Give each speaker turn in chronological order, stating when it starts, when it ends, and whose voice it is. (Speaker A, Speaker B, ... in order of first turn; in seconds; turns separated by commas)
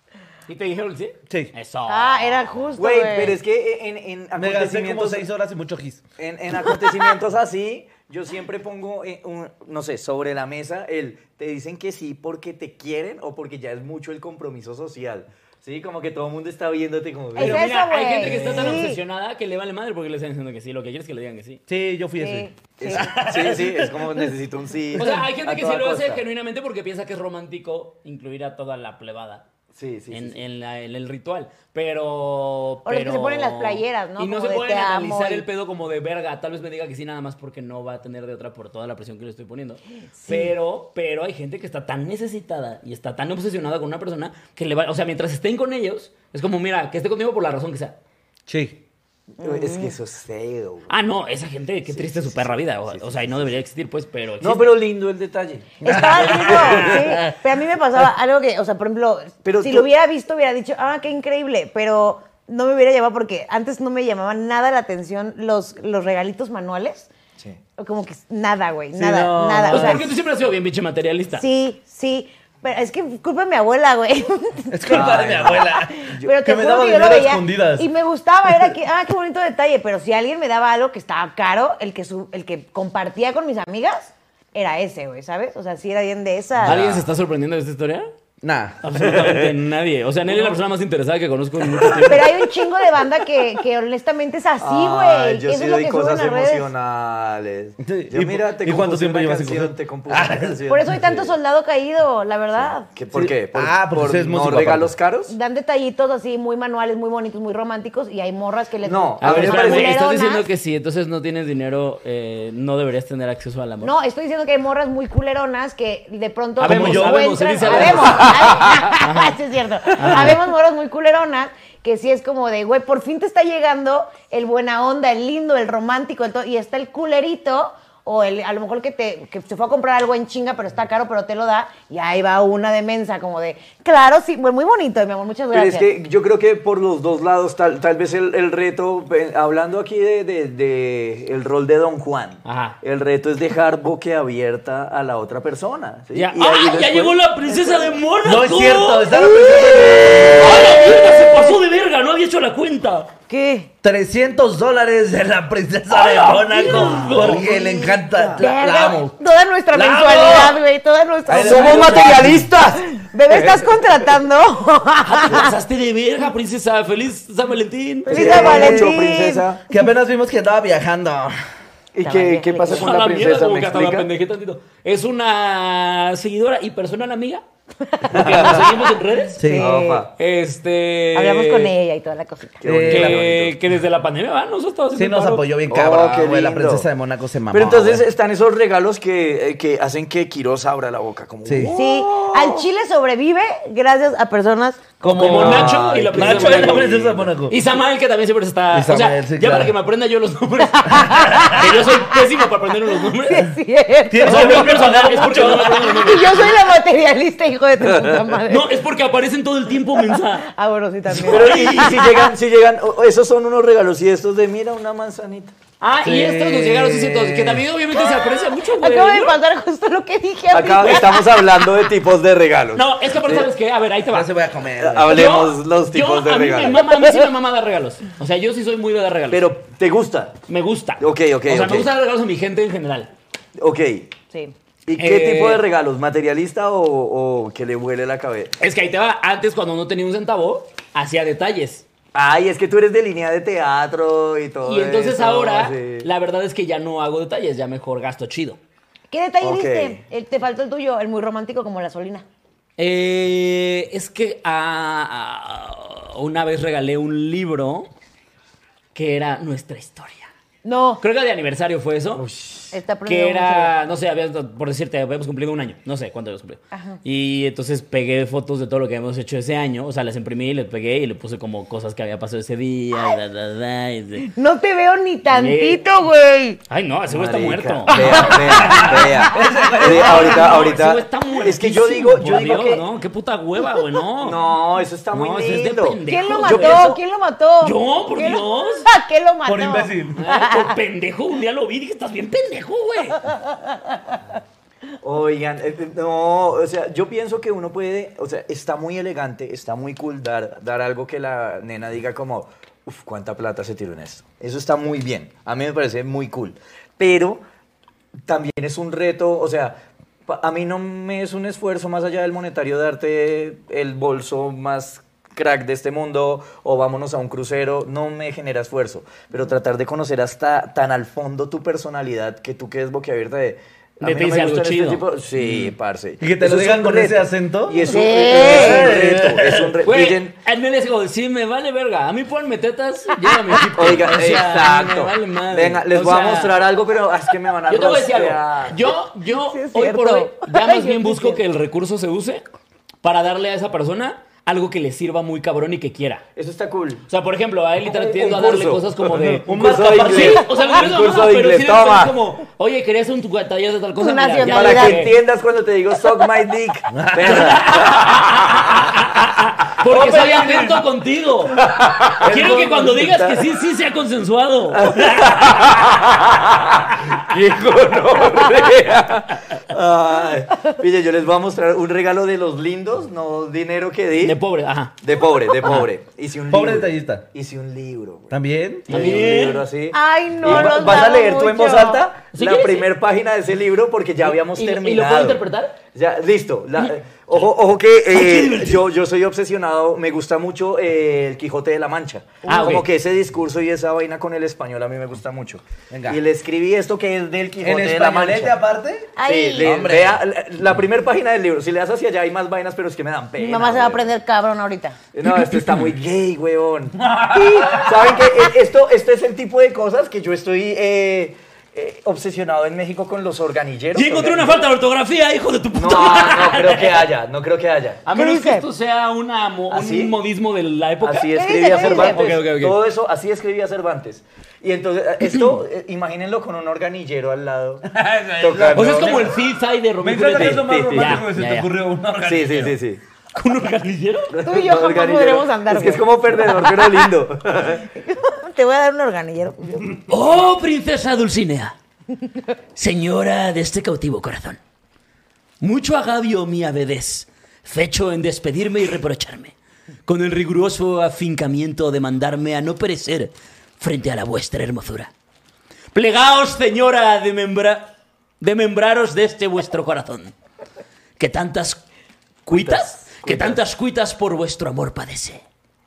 Speaker A: 0.5-2.5, Speaker B: 1.9-3.4, Speaker C: 2.8-5.2, Speaker D: 4.3-6.0, Speaker C: 6.2-17.7, Speaker B: 17.3-19.0, Speaker A: 17.4-21.6, Speaker C: 18.2-18.8, Speaker D: 21.7-24.3, Speaker B: 22.2-23.1, Speaker C: 22.8-26.2, Speaker A: 24.9-29.4, Speaker C: 29.7-30.4, Speaker A: 30.1-48.0, Speaker B: 32.8-35.5, Speaker B: 40.1-40.5, Speaker D: 48.5-48.8, Speaker B: 49.4-49.9, Speaker C: 49.4-50.9, Speaker A: 50.9-54.7, Speaker C: 51.9-53.5, Speaker C: 54.4-57.0, Speaker B: 55.8-67.1, Speaker D: 55.8-57.4, Speaker C: 59.4-59.9, Speaker B: 67.8-70.1, Speaker D: 68.9-70.1, Speaker A: 69.7-71.4, Speaker B: 71.3-86.8, Speaker D: 74.7-77.9, Speaker C: 74.9-76.3, Speaker D: 78.5-78.8, Speaker C: 86.6-87.0, Speaker A: 86.6-88.1, Speaker D: 88.4-89.5, Speaker A: 88.8-92.4, Speaker D: 90.2-90.6, Speaker D: 91.6-92.1, Speaker B: 92.0-96.7, Speaker C: 94.6-101.3, Speaker D: 97.8-100.6, Speaker B: 100.7-102.9, Speaker C: 102.5-105.3, Speaker D: 103.1-104.9, Speaker B: 105.3-110.5, Speaker C: 108.8-110.0, Speaker A: 109.2-113.9, Speaker B: 113.8-135.9, Speaker A: 116.6-119.4, Speaker D: 116.6-118.6, Speaker A: 119.9-120.4, Speaker C: 135.5-147.9, Speaker A: 142.4-142.8, Speaker A: 146.1-149.2, Speaker D: 148.2-151.0, Speaker B: 149.2-151.5, Speaker A: 150.2-153.1, Speaker B: 153.3-153.7, Speaker D: 153.8-159.2, Speaker A: 155.9-157.5, Speaker C: 156.7-158.4, Speaker B: 158.3-165.5, Speaker D: 159.7-160.6, Speaker A: 159.8-160.5, Speaker D: 161.2-162.5, Speaker C: 161.3-163.8, Speaker A: 165.0-168.7, Speaker B: 168.1-169.4, Speaker C: 168.1-169.6, Speaker D: 168.1-168.9, Speaker D: 169.7-171.4, Speaker C: 171.9-174.1, Speaker B: 172.0-172.9, Speaker A: 172.6-177.4, Speaker B: 177.8-180.1, Speaker A: 178.0-179.4, Speaker C: 178.1-178.7, Speaker D: 179.4-179.7, Speaker C: 179.5-180.1, Speaker A: 180.2-181.7, Speaker B: 181.1-182.6, Speaker C: 182.6-183.6, Speaker D: 182.6-183.2, Speaker A: 182.9-185.4, Speaker D: 184.9-188.0, Speaker C: 185.7-186.9, Speaker C: 187.5-192.7, Speaker D: 191.4-191.7, Speaker B: 191.7-194.9, Speaker D: 195.0-197.6, Speaker C: 195.0-197.3, Speaker A: 195.1-203.5, Speaker D: 198.7-199.7, Speaker B: 200.7-202.2, Speaker D: 201.1-201.5, Speaker B: 203.1-208.7, Speaker D: 204.1-206.2, Speaker A: 204.2-206.5, Speaker A: 208.5-210.5, Speaker B: 210.0-212.3, Speaker A: 211.1-212.1, Speaker C: 211.2-215.5, Speaker A: 215.8-219.3, Speaker D: 216.0-217.7, Speaker B: 217.9-221.9, Speaker C: 220.5-223.5, Speaker A: 222.7-224.3, Speaker D: 224.1-225.2, Speaker C: 224.8-226.9, Speaker A: 225.0-229.5, Speaker B: 226.8-227.2, Speaker C: 229.3-230.4, Speaker A: 230.5-233.1, Speaker C: 231.0-231.9, Speaker C: 233.6-234.1, Speaker C: 234.8-238.6, Speaker A: 235.0-235.6, Speaker A: 238.6-241.8, Speaker C: 242.1-246.1, Speaker A: 244.6-248.6, Speaker B: 249.1-252.2, Speaker C: 249.4-250.0, Speaker A: 252.8-257.9, Speaker A: 258.9-260.3, Speaker B: 260.6-261.0, Speaker A: 261.0-262.2, Speaker C: 262.1-262.7, Speaker B: 262.7-263.7, Speaker A: 263.1-274.3, Speaker B: 266.7-267.0, Speaker B: 274.2-276.6, Speaker A: 275.3-275.8, Speaker A: 276.7-279.2, Speaker C: 277.1-282.8, Speaker B: 277.9-279.2, Speaker D: 278.6-280.5, Speaker A: 279.8-284.5, Speaker C: 284.2-287.0, Speaker A: 285.1-287.0, Speaker B: 286.1-290.8, Speaker A: 287.6-288.9, Speaker D: 289.4-290.2, Speaker A: 290.2-293.3, Speaker B: 293.7-294.2, Speaker C: 295.0-307.4, Speaker C: 308.2-330.3, Speaker A: 324.0-325.0, Speaker D: 325.4-329.8, Speaker B: 327.8-328.9, Speaker A: 329.8-336.6, Speaker C: 333.7-338.9, Speaker A: 337.7-342.4, Speaker B: 339.2-341.4, Speaker A: 343.0-346.2, Speaker C: 346.4-347.0, Speaker A: 347.1-355.1, Speaker C: 347.8-352.1, Speaker D: 349.1-350.5, Speaker B: 354.0-355.1, Speaker C: 354.4-358.9, Speaker D: 356.9-357.6, Speaker A: 357.2-361.6, Speaker D: 359.8-360.8, Speaker C: 361.5-363.5, Speaker A: 362.2-365.7, Speaker C: 364.7-374.4, Speaker A: 374.2-374.9, Speaker C: 375.0-398.6, Speaker A: 375.6-375.9, Speaker D: 376.5-377.2, Speaker D: 378.3-379.2, Speaker A: 378.9-379.7, Speaker B: 379.9-382.0, Speaker D: 380.4-381.0, Speaker A: 382.3-382.9, Speaker A: 384.2-385.8, Speaker A: 388.1-388.8, Speaker A: 392.4-392.9, Speaker D: 395.9-396.2, Speaker D: 397.6-400.2, Speaker B: 399.1-399.7, Speaker C: 399.2-404.1, Speaker B: 403.4-405.0, Speaker C: 405.1-414.6, Speaker A: 405.2-405.9, Speaker D: 407.4-407.6, Speaker A: 413.9-417.1, Speaker C: 415.7-418.0, Speaker A: 418.0-422.8, Speaker B: 418.1-418.6, Speaker C: 419.7-420.1, Speaker C: 421.0-427.9, Speaker B: 421.3-422.2, Speaker A: 425.2-425.6, Speaker D: 427.9-429.4, Speaker C: 428.4-429.3, Speaker A: 428.7-431.7, Speaker D: 430.0-432.8, Speaker C: 430.3-431.2, Speaker C: 432.2-433.0, Speaker A: 433.3-434.3, Speaker C: 434.3-437.9, Speaker B: 434.4-437.1, Speaker B: 437.9-440.0, Speaker A: 440.1-441.8, Speaker A: 442.8-444.6, Speaker A: 445.6-449.5, Speaker A: 450.1-455.1, Speaker A: 455.9-460.3, Speaker A: 461.2-461.8, Speaker A: 462.4-465.4, Speaker C: 462.5-463.6